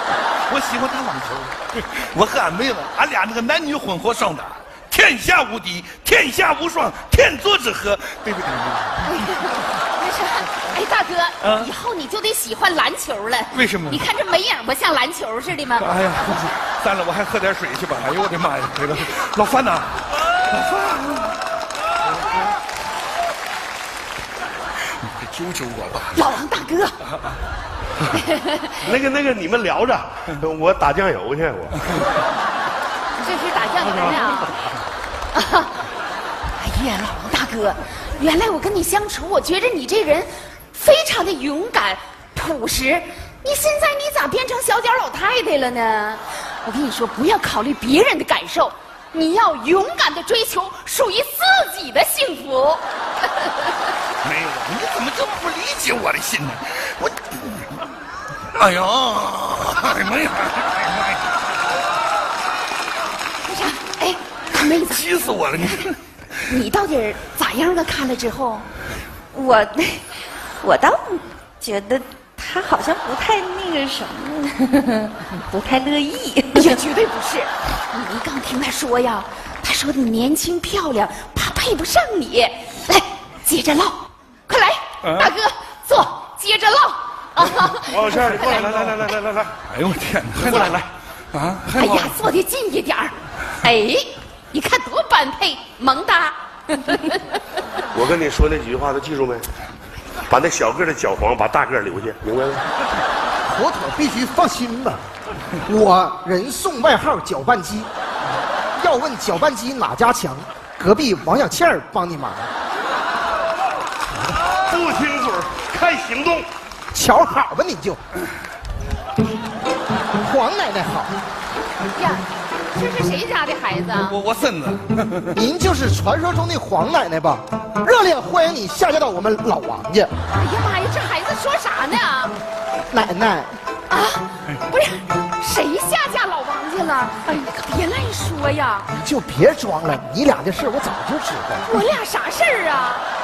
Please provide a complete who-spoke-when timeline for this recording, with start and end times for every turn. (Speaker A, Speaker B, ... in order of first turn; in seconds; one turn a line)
Speaker A: 0.5-9.1
Speaker B: 9.1-15.9
Speaker A: 11.4-11.7
Speaker A: 13.5-14.0
Speaker A: 15.8-21.3
Speaker A: 25.5-26.2
Speaker B: 26.1-27.0
Speaker B: 28.1-28.7
Speaker C: 28.8-31.8
Speaker B: 33.2-34.6
Speaker B: 35.3-35.7
Speaker B: 36.6-52.8
Speaker B: 53.4-53.7
Speaker A: 54.2-57.9
Speaker A: 58.5-61.3
Speaker B: 63.5-65.0
Speaker A: 64.7-66.5
Speaker B: 66.5-68.7
Speaker D: 69.3-70.1
Speaker D: 70.6-76.7
Speaker B: 76.5-88.6
Speaker A: 85.0-85.3
Speaker C: 87.9-89.5
Speaker A: 88.6-88.9
Speaker A: 89.6-92.2
Speaker C: 90.4-90.9
Speaker B: 91.8-97.3
Speaker C: 97.9-99.5
Speaker C: 100.3-102.6
Speaker E: 103.4-105.0
Speaker E: 105.6-107.9
Speaker E: 108.8-112.5
Speaker C: 114.7-116.5
Speaker E: 116.9-118.0
Speaker E: 120.2-121.1
Speaker B: 121.9-124.2
Speaker A: 124.0-125.4
Speaker E: 125.3-130.1
Speaker B: 130.3-132.3
Speaker E: 132.9-133.5
Speaker B: 133.9-138.9
Speaker E: 138.9-141.6
Speaker B: 141.6-143.0